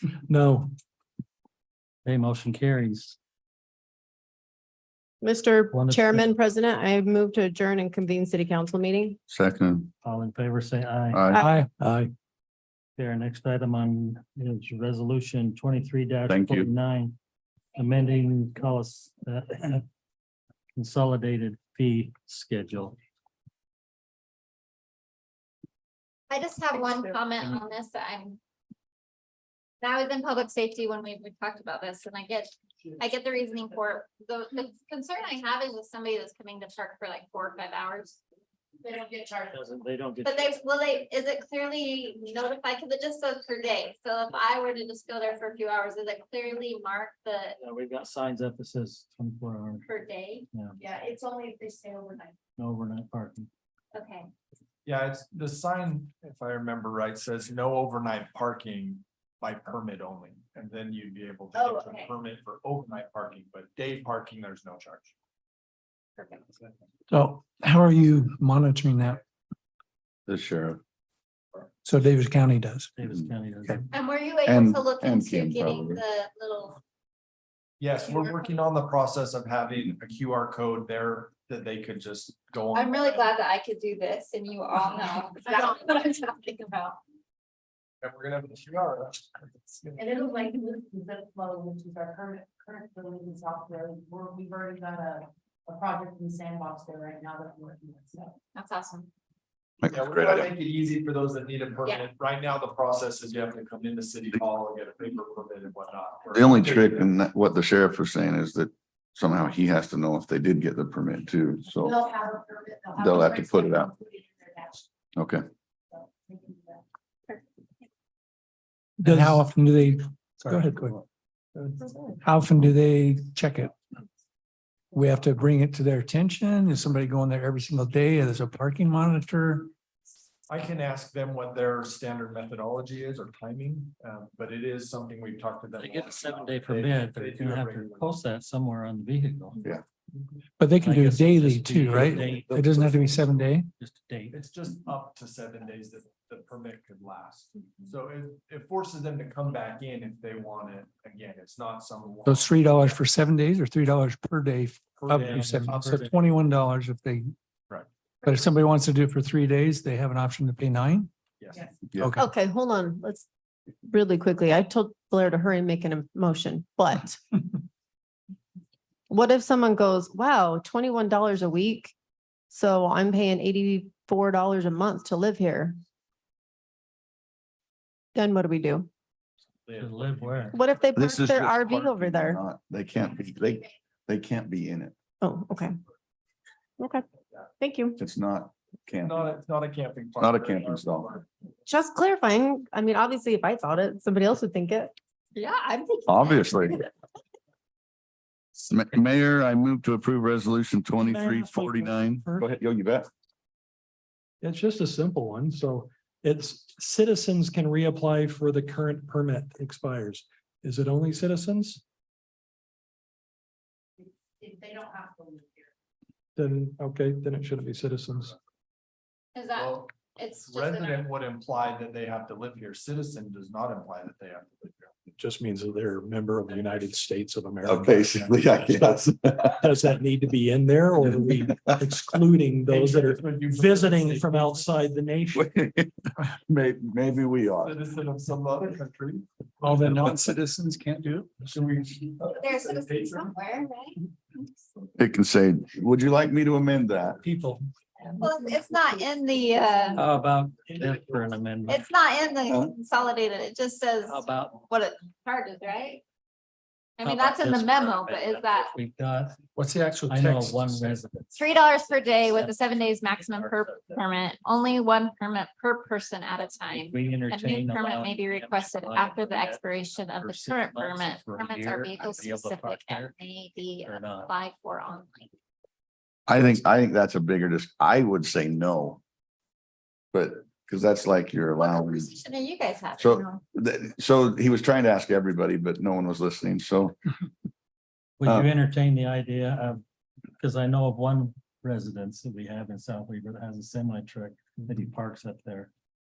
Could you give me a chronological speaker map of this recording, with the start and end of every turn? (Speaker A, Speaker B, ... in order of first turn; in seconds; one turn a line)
Speaker A: 0.3-0.7
Speaker B: 2.0-3.2
Speaker C: 5.2-9.2
Speaker B: 5.7-6.3
Speaker D: 9.3-9.9
Speaker B: 10.0-11.3
Speaker D: 11.1-11.4
Speaker E: 11.4-11.7
Speaker A: 11.8-12.1
Speaker B: 13.0-17.2
Speaker D: 16.3-16.7
Speaker B: 17.8-19.8
Speaker B: 20.8-23.0
Speaker F: 26.3-28.4
Speaker F: 29.8-38.2
Speaker G: 38.8-39.5
Speaker B: 39.5-40.6
Speaker F: 40.2-47.6
Speaker B: 47.6-49.9
Speaker F: 49.8-50.5
Speaker B: 50.5-50.8
Speaker G: 50.8-52.3
Speaker B: 52.6-53.5
Speaker F: 53.9-54.3
Speaker H: 54.8-65.1
Speaker F: 61.5-62.1
Speaker F: 66.2-66.4
Speaker E: 67.1-69.2
Speaker D: 70.3-70.8
Speaker E: 71.8-72.9
Speaker B: 73.0-73.9
Speaker F: 73.9-76.8
Speaker D: 74.5-76.0
Speaker H: 77.8-83.3
Speaker F: 82.7-87.0
Speaker H: 88.0-90.0
Speaker G: 90.0-98.3
Speaker F: 98.5-99.1
Speaker D: 99.8-100.5
Speaker H: 99.9-107.1
Speaker D: 106.3-112.1
Speaker G: 111.8-114.8
Speaker D: 113.0-113.9
Speaker D: 115.2-115.4
Speaker G: 116.0-116.8
Speaker A: 119.0-119.5
Speaker E: 119.0-121.0
Speaker A: 120.5-120.9
Speaker E: 122.2-123.7
Speaker E: 124.9-129.7
Speaker H: 130.5-138.2
Speaker B: 135.8-139.6
Speaker E: 140.6-143.7
Speaker B: 140.8-142.9
Speaker D: 142.0-143.1
Speaker B: 143.8-144.4
Speaker H: 144.3-153.0
Speaker E: 152.2-157.3
Speaker H: 155.0-156.0
Speaker B: 155.1-156.2
Speaker E: 158.2-161.1
Speaker H: 161.4-162.0
Speaker E: 162.0-162.2
Speaker C: 162.2-163.2
Speaker C: 163.8-167.4
Speaker C: 169.1-171.9
Speaker C: 172.5-175.8
Speaker C: 178.1-178.9
Speaker H: 179.6-180.5
Speaker B: 179.8-180.6
Speaker C: 180.5-182.4
Speaker D: 180.9-184.9
Speaker C: 185.2-185.8
Speaker C: 186.8-187.0
Speaker C: 187.6-188.0
Speaker D: 188.0-189.3
Speaker H: 189.0-191.2
Speaker D: 190.2-191.1
Speaker C: 191.7-194.9
Speaker F: 195.3-196.9
Speaker D: 196.1-196.8
Speaker D: 198.6-203.1
Speaker A: 201.0-202.4
Speaker A: 204.4-211.8
Speaker G: 214.0-215.7
Speaker A: 216.3-218.3
Speaker F: 219.3-221.1
Speaker H: 219.5-224.9
Speaker A: 225.2-229.0
Speaker D: 227.6-229.8
Speaker H: 227.7-228.3
Speaker A: 229.5-235.5
Speaker D: 231.1-232.2
Speaker H: 232.7-234.7
Speaker D: 235.3-237.8
Speaker H: 237.6-239.9
Speaker E: 239.6-241.5
Speaker H: 241.4-243.3
Speaker F: 242.3-244.4
Speaker D: 245.0-247.2
Speaker F: 248.2-250.0
Speaker B: 249.9-251.8
Speaker F: 251.7-256.0
Speaker B: 254.1-254.6
Speaker F: 257.0-258.7
Speaker B: 257.0-259.4
Speaker E: 259.6-260.9
Speaker B: 260.1-261.3
Speaker F: 261.3-275.3
Speaker B: 262.2-264.0
Speaker B: 266.7-273.1
Speaker B: 273.8-274.3
Speaker D: 276.3-279.0
Speaker D: 280.1-282.1
Speaker F: 281.6-283.4
Speaker D: 283.0-286.9
Speaker B: 288.2-289.8
Speaker B: 290.4-295.7